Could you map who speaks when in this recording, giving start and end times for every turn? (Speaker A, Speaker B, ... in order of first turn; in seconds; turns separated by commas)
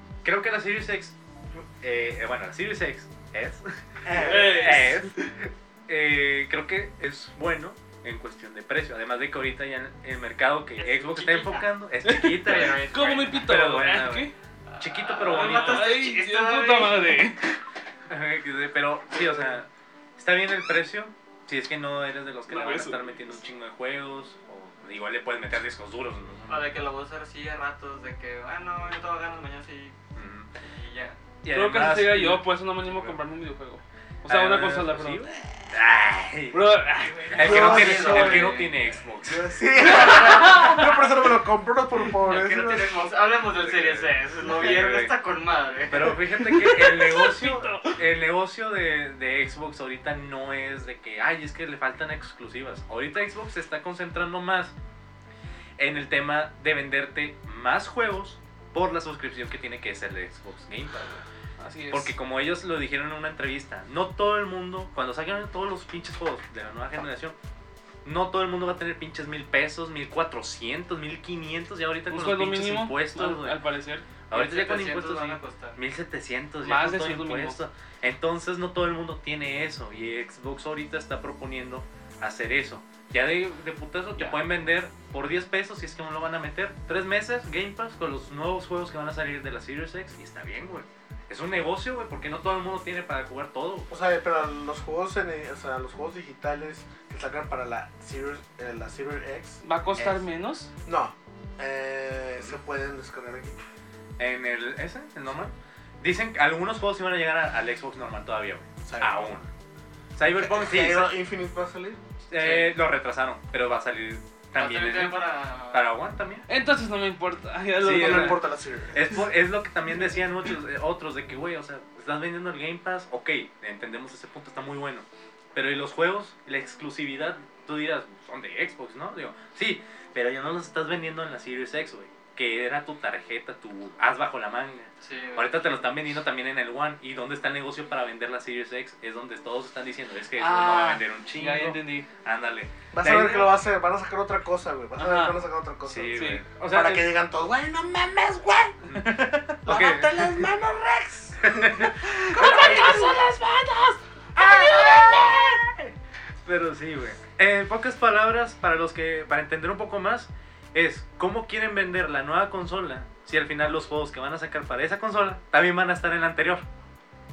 Speaker A: 0.2-16.0, Speaker B: 4.0-4.8, Speaker C: 4.1-5.1, Speaker D: 10.8-11.7, Speaker C: 12.0-14.3, Speaker D: 12.4-13.5, Speaker D: 14.7-17.2, Speaker C: 15.2-17.6, Speaker A: 18.1-26.7, Speaker C: 22.5-23.3, Speaker D: 26.5-29.9, Speaker A: 30.1-30.5, Speaker D: 30.6-31.2, Speaker A: 31.4-33.2, Speaker C: 31.5-35.3, Speaker A: 34.2-36.6, Speaker C: 36.5-37.5, Speaker D: 37.3-38.8, Speaker A: 37.3-39.5, Speaker B: 37.4-38.6, Speaker B: 39.2-43.0, Speaker D: 39.9-40.8, Speaker D: 42.1-46.3, Speaker A: 43.5-45.1, Speaker A: 45.9-54.7, Speaker C: 46.6-48.0, Speaker A: 55.8-61.2, Speaker C: 61.6-62.1, Speaker A: 61.9-67.4, Speaker A: 68.0-73.6, Speaker C: 72.1-74.1, Speaker A: 74.3-93.9, Speaker D: 74.3-75.8, Speaker C: 76.6-77.6, Speaker B: 93.9-99.6, Speaker C: 99.6-100.7, Speaker A: 99.9-100.2, Speaker B: 100.8-103.6, Speaker A: 104.2-109.5, Speaker B: 108.8-109.3, Speaker A: 110.1-111.1, Speaker B: 110.3-112.0, Speaker A: 112.3-116.5, Speaker D: 112.4-112.8, Speaker D: 114.5-115.9, Speaker C: 116.5-118.4, Speaker A: 117.8-143.6, Speaker B: 117.8-119.2, Speaker D: 135.0-135.8, Speaker C: 140.4-142.1, Speaker B: 142.9-148.8, Speaker C: 145.0-145.4, Speaker A: 145.8-147.1, Speaker C: 146.1-146.4, Speaker A: 148.8-150.5, Speaker B: 149.6-153.7, Speaker A: 151.4-153.3, Speaker C: 152.4-152.8, Speaker B: 154.3-155.9, Speaker A: 154.4-155.3, Speaker A: 156.4-166.6